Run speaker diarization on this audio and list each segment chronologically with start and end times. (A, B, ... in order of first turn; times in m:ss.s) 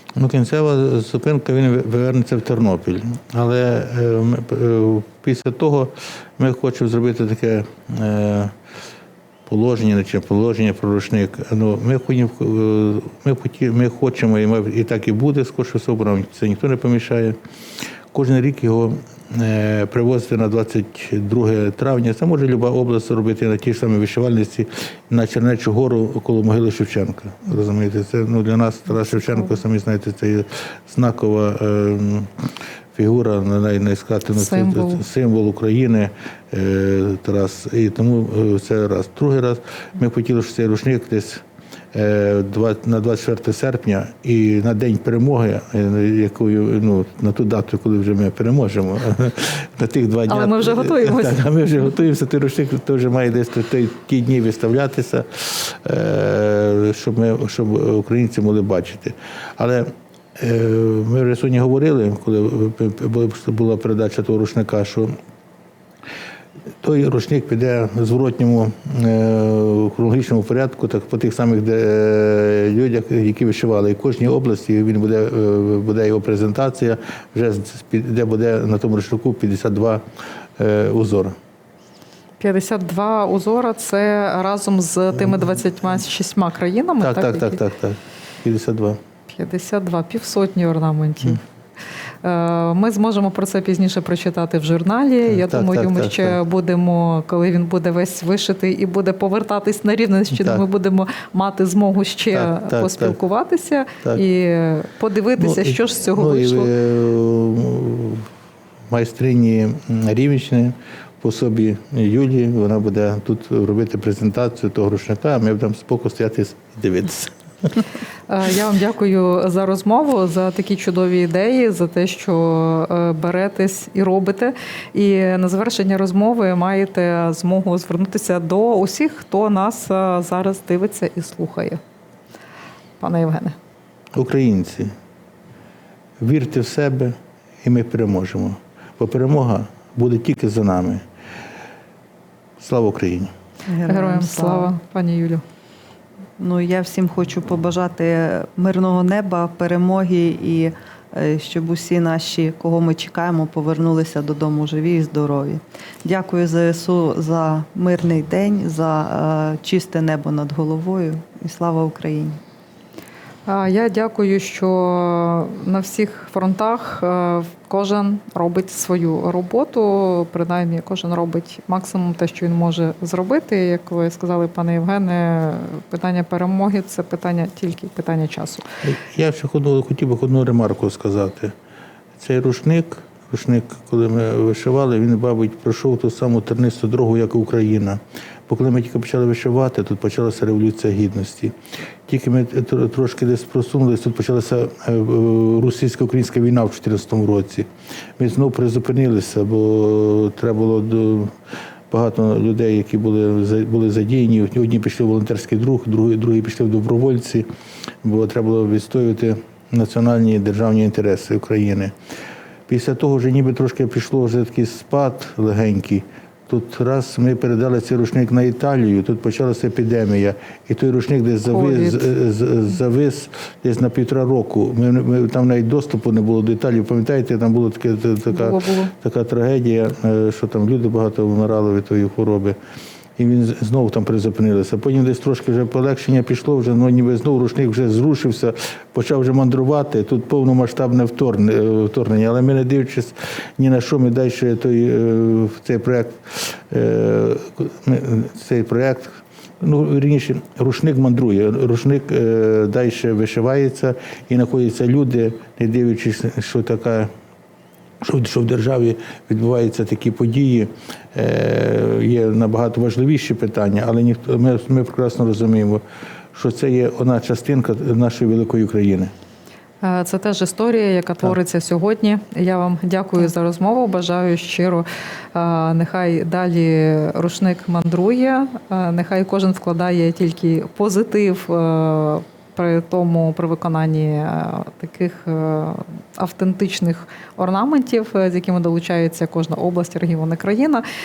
0:00.2-0:08.5 A
0:09.5-0:17.4 A
0:18.1-0:32.3 A
0:32.9-1:05.2 A
0:34.3-0:35.0 B
0:50.3-0:51.4 B
1:06.8-1:20.0 A
1:20.6-1:21.4 A
1:22.4-1:27.6 B
1:27.0-1:29.0 A
1:29.3-1:31.4 B
1:32.2-1:46.7 B
1:35.3-1:36.4 A
1:40.3-1:40.6 A
1:42.3-1:43.2 A
1:45.4-1:48.3 A
1:48.9-1:57.3 A
1:58.3-2:11.8 B
2:13.0-2:13.6 B
2:14.1-2:14.9 A
2:16.2-2:21.0 A
2:22.6-2:23.3 A
2:23.7-2:24.7 C
2:23.8-2:25.4 B
2:26.4-2:42.4 C
2:43.5-2:58.6 B
2:58.8-3:01.5 A
3:02.2-3:11.5 A
3:12.0-3:21.3 A
3:21.9-3:27.4 A
3:28.0-3:31.9 A
3:32.7-3:52.6 A
3:41.5-3:42.1 B
3:48.3-3:48.9 B
3:53.2-4:17.1 A
4:18.0-4:25.8 A
4:26.3-4:29.1 A
4:29.8-4:50.8 B